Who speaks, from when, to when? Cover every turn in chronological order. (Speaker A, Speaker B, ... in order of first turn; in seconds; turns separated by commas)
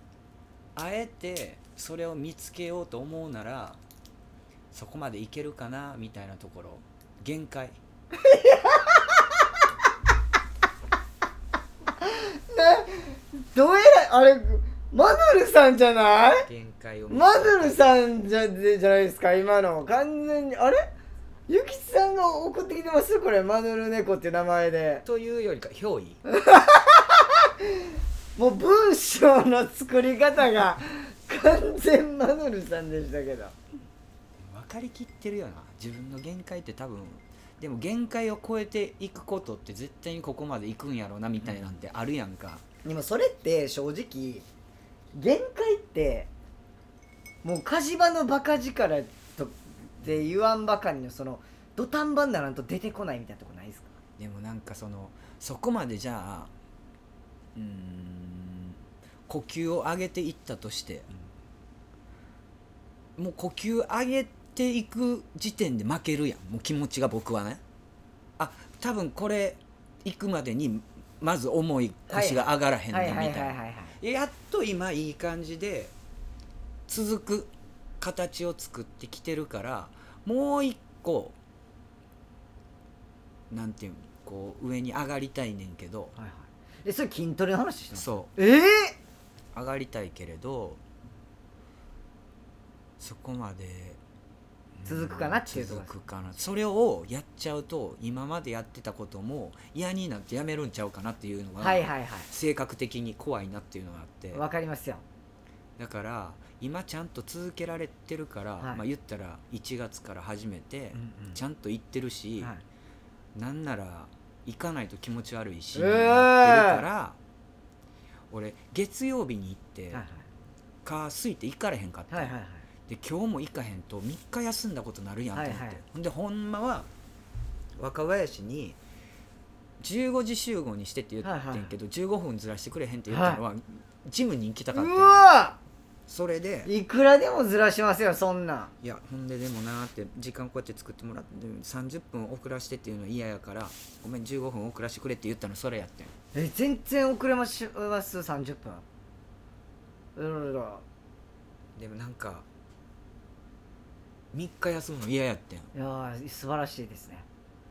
Speaker A: 0.7-3.8, Speaker A: 4.7-7.8, Speaker B: 8.2-9.2, Speaker B: 12.0-16.5, Speaker A: 16.4-17.9, Speaker B: 17.1-20.8, Speaker B: 21.5-25.0, Speaker A: 25.0-26.2, Speaker B: 26.2-27.7, Speaker B: 28.4-33.5, Speaker A: 34.4-42.6, Speaker B: 42.8-44.5, Speaker B: 45.1-46.3, Speaker B: 47.4-53.9, Speaker A: 54.2-56.5, Speaker A: 57.5-61.1, Speaker A: 63.2-67.6, Speaker A: 68.4-75.9, Speaker B: 72.1-74.0, Speaker A: 76.9-81.3, Speaker A: 83.5-86.1, Speaker B: 86.2-88.9, Speaker A: 87.9-88.3, Speaker A: 89.5-90.8, Speaker A: 93.0-94.0, Speaker A: 94.8-104.4, Speaker B: 94.8-95.9, Speaker B: 101.6-102.3, Speaker B: 104.3-105.0, Speaker A: 105.8-112.5, Speaker B: 110.9-111.4, Speaker A: 113.3-117.2, Speaker B: 115.7-116.8, Speaker A: 118.3-120.0, Speaker B: 119.9-120.2, Speaker A: 120.8-122.3, Speaker B: 122.1-122.7, Speaker A: 122.9-126.9, Speaker B: 125.3-125.8, Speaker A: 127.8-128.8, Speaker A: 129.8-135.2, Speaker B: 131.2-131.7, Speaker B: 133.1-133.4, Speaker B: 134.7-135.6, Speaker A: 136.1-136.7, Speaker B: 136.7-138.7, Speaker A: 138.8-146.1, Speaker B: 146.3-148.8, Speaker B: 150.2-150.8, Speaker A: 151.8-152.4, Speaker A: 154.3-155.7, Speaker B: 155.7-157.2